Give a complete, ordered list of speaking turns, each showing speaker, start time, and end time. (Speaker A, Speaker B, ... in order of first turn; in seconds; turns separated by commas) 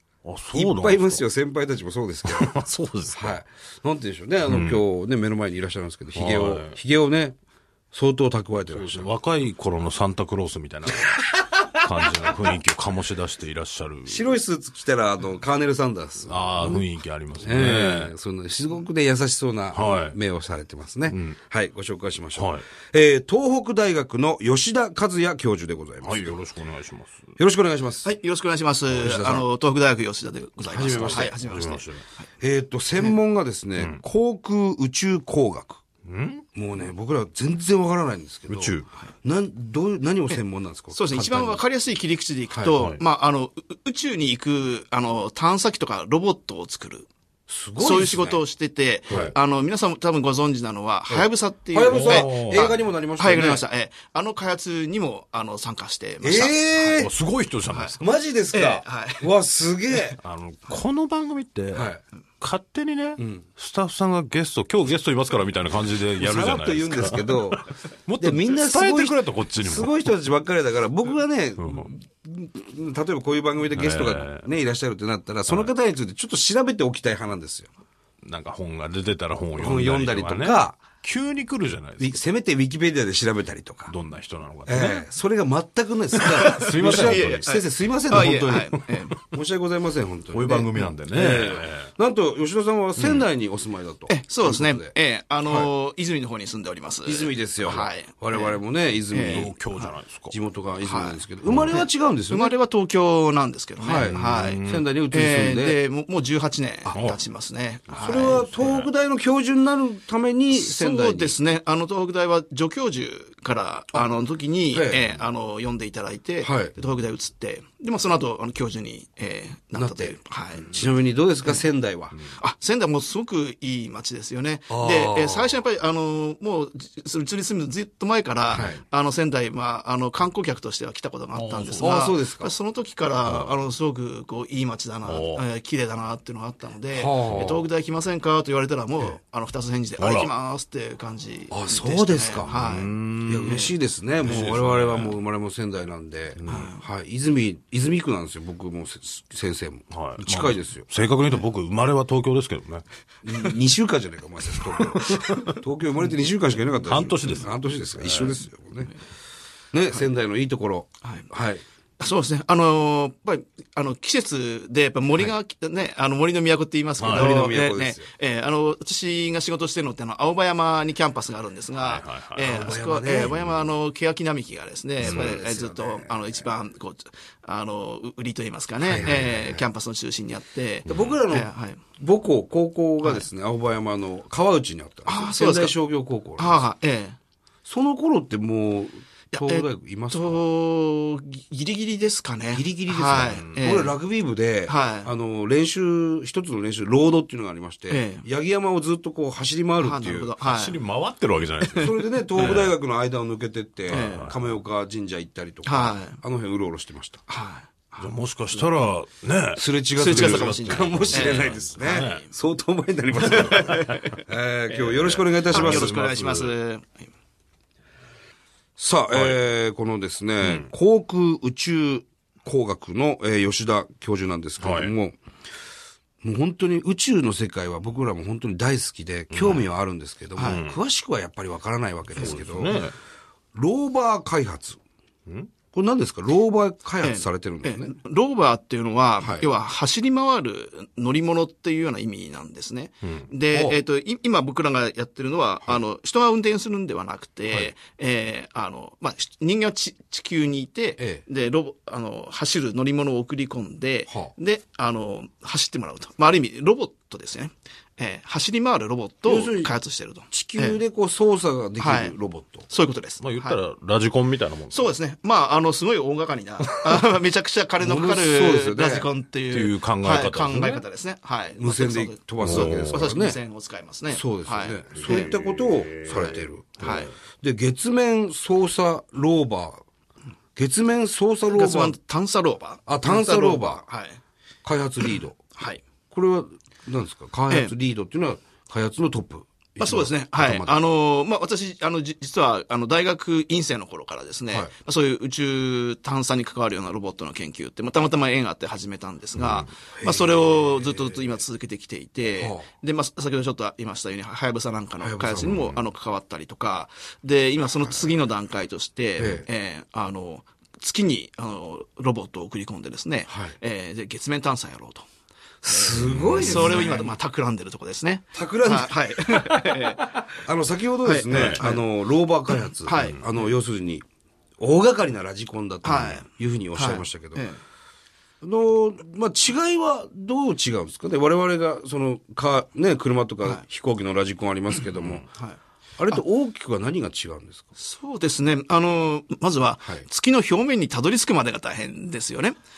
Speaker A: 0.2-1.2, Speaker B: 0.5-2.5, Speaker A: 2.2-3.4, Speaker B: 3.1-7.3, Speaker A: 4.5-4.8, Speaker A: 6.1-6.8, Speaker B: 7.9-9.1, Speaker A: 8.7-14.3, Speaker B: 14.1-16.8, Speaker A: 16.2-18.1, Speaker B: 17.4-26.4, Speaker A: 19.7-20.2, Speaker A: 21.1-21.4, Speaker A: 22.3-22.6, Speaker A: 26.0-27.3, Speaker B: 27.4-28.1, Speaker C: 28.0-32.2, Speaker B: 28.9-29.5, Speaker B: 30.7-31.3, Speaker A: 30.7-32.0, Speaker B: 32.4-35.8, Speaker A: 33.8-34.0, Speaker A: 36.0-36.4, Speaker B: 36.5-41.6, Speaker A: 38.5-38.9, Speaker C: 40.3-47.1, Speaker A: 42.7-43.0, Speaker B: 47.5-48.4, Speaker C: 47.8-57.1, Speaker B: 51.1-53.6, Speaker A: 51.9-52.8, Speaker B: 56.2-57.1, Speaker A: 57.0-58.0, Speaker C: 57.7-58.0, Speaker B: 58.0-60.2, Speaker C: 58.5-59.3, Speaker A: 60.2-61.9, Speaker B: 61.7-62.0, Speaker A: 62.4-70.0, Speaker B: 63.2-63.5, Speaker B: 66.2-77.7, Speaker A: 71.6-71.9, Speaker A: 73.7-74.4, Speaker A: 78.2-82.2, Speaker B: 79.5-80.8, Speaker B: 82.0-83.9, Speaker A: 83.9-85.1, Speaker B: 84.7-94.9, Speaker C: 86.2-89.4, Speaker A: 86.3-87.5, Speaker A: 88.1-88.6, Speaker A: 90.3-91.9, Speaker A: 93.0-93.2, Speaker C: 94.1-99.9, Speaker B: 95.4-95.7, Speaker B: 97.0-99.5, Speaker A: 99.2-100.3, Speaker B: 100.3-102.5, Speaker C: 100.8-108.5, Speaker A: 101.5-101.7, Speaker B: 103.8-105.8, Speaker A: 103.9-104.9, Speaker A: 106.9-107.2, Speaker B: 108.0-111.4, Speaker A: 108.1-108.9, Speaker C: 110.5-120.8, Speaker B: 114.7-115.1, Speaker B: 116.4-116.7, Speaker B: 119.7-120.2, Speaker B: 120.7-122.2, Speaker C: 122.2-143.7, Speaker B: 124.7-125.5, Speaker B: 128.5-128.8, Speaker A: 131.3-132.0, Speaker B: 131.8-132.5, Speaker A: 135.0-135.4, Speaker B: 136.9-137.6, Speaker A: 137.3-137.6, Speaker A: 140.0-140.3, Speaker B: 141.5-142.5, Speaker A: 142.4-143.6, Speaker B: 143.2-150.9, Speaker A: 144.2-145.2, Speaker C: 144.2-145.1, Speaker A: 146.4-146.7, Speaker C: 146.5-146.8, Speaker A: 149.9-153.3, Speaker B: 153.2-158.9, Speaker A: 154.8-155.6, Speaker A: 156.9-158.4, Speaker B: 159.7-161.6, Speaker C: 161.0-161.3, Speaker C: 162.0-181.8, Speaker A: 167.0-167.4, Speaker B: 167.0-168.1, Speaker A: 171.7-172.6, Speaker B: 172.4-173.6, Speaker B: 175.0-176.2, Speaker A: 175.0-175.4, Speaker B: 178.8-179.6, Speaker B: 180.8-186.7, Speaker A: 180.9-181.2, Speaker C: 183.0-183.2, Speaker C: 185.0-185.8, Speaker C: 186.3-187.2, Speaker B: 187.6-190.4, Speaker C: 189.3-193.9, Speaker B: 192.5-200.3, Speaker A: 193.1-193.6, Speaker C: 194.7-195.1, Speaker C: 197.9-198.2, Speaker C: 199.8-200.8, Speaker A: 200.4-202.7, Speaker C: 201.6-202.5, Speaker B: 201.8-207.2, Speaker C: 203.9-204.3, Speaker A: 203.9-204.4, Speaker C: 205.6-206.2, Speaker C: 207.3-207.7, Speaker A: 208.0-212.2, Speaker B: 209.5-216.0, Speaker C: 210.0-212.3, Speaker A: 213.2-214.1, Speaker C: 213.2-217.1, Speaker A: 215.5-216.5, Speaker B: 218.8-225.2, Speaker A: 219.1-219.4, Speaker A: 220.4-220.7, Speaker A: 224.6-224.9, Speaker B: 226.2-232.9, Speaker A: 229.3-229.6, Speaker C: 230.3-230.7, Speaker A: 230.4-230.8, Speaker A: 232.2-232.9, Speaker B: 233.5-234.8, Speaker A: 235.2-235.5, Speaker B: 235.7-237.9, Speaker C: 237.0-260.8, Speaker B: 239.2-239.5, Speaker A: 243.0-243.3, Speaker B: 243.5-243.8, Speaker B: 259.2-259.7, Speaker B: 260.3-262.6, Speaker C: 261.8-263.6, Speaker A: 263.2-264.9, Speaker C: 264.7-275.3, Speaker B: 267.8-269.1, Speaker A: 269.5-270.8, Speaker B: 271.6-273.4, Speaker A: 272.4-273.1, Speaker B: 274.1-279.8, Speaker A: 274.9-277.1, Speaker C: 276.8-277.1, Speaker B: 280.6-281.9, Speaker C: 281.5-284.2, Speaker B: 282.9-283.8, Speaker B: 284.6-285.4, Speaker C: 285.5-285.8, Speaker B: 286.1-290.8, Speaker C: 287.5-287.7, Speaker C: 289.8-315.0, Speaker A: 299.4-299.7, Speaker B: 299.9-300.3, Speaker B: 302.3-302.7, Speaker B: 305.0-305.7, Speaker A: 305.4-305.8, Speaker B: 309.2-309.5, Speaker B: 313.3-313.5, Speaker B: 315.6-317.1, Speaker C: 315.6-320.2, Speaker A: 316.0-317.0, Speaker B: 318.3-319.0, Speaker B: 320.4-324.1, Speaker C: 321.0-321.9, Speaker A: 321.3-321.6, Speaker C: 322.5-323.2, Speaker B: 324.6-327.5, Speaker C: 325.8-327.6, Speaker B: 328.4-335.2, Speaker A: 335.0-335.2, Speaker B: 336.0-337.7, Speaker C: 337.8-342.6